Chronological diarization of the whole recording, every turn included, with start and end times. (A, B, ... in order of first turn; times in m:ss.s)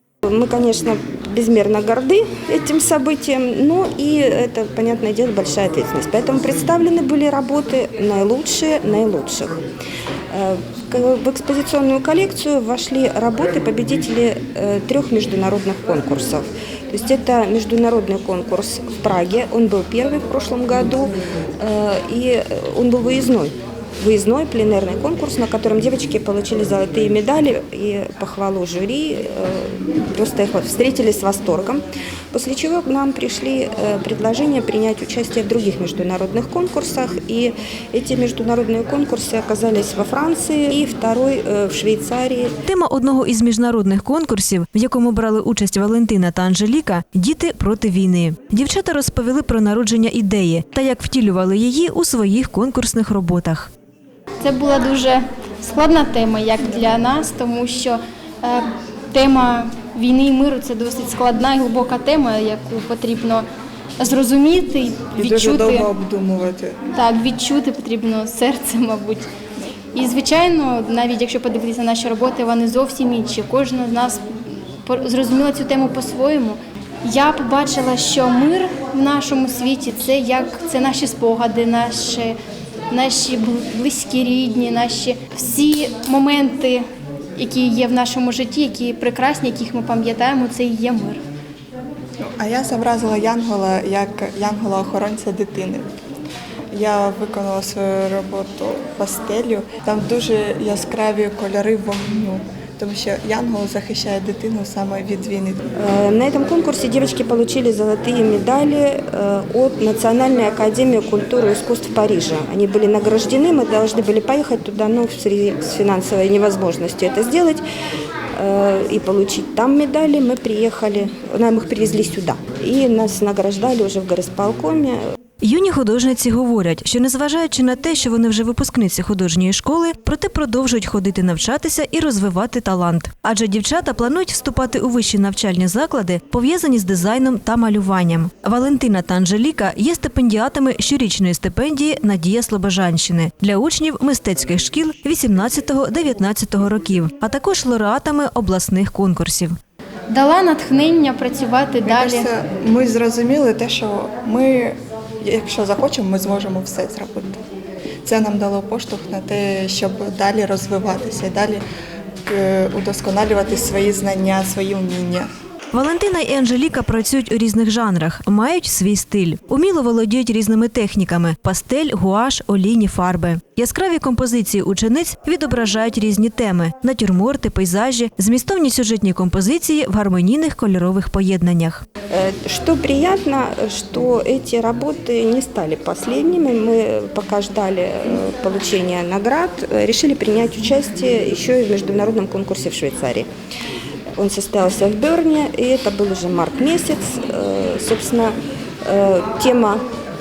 0:00.3-0:09.6 A
0:10.3-0:42.5 A
0:42.7-0:53.7 B
0:54.4-1:03.5 C
1:04.0-1:05.9 C
1:05.2-1:06.8 D
1:06.9-1:09.3 C
1:10.0-1:14.2 C
1:14.8-1:22.4 C
1:22.9-1:26.8 C
1:27.4-1:31.2 C
1:32.2-1:35.9 D
1:36.7-1:45.6 D
1:45.8-1:57.6 A
1:58.4-2:05.0 A
2:05.4-2:29.6 B
2:30.1-2:32.3 C
2:31.8-2:37.4 D
2:38.0-2:41.6 D
2:42.2-2:45.3 D
2:45.7-3:01.8 B
3:02.1-3:13.3 A
3:14.2-3:19.8 A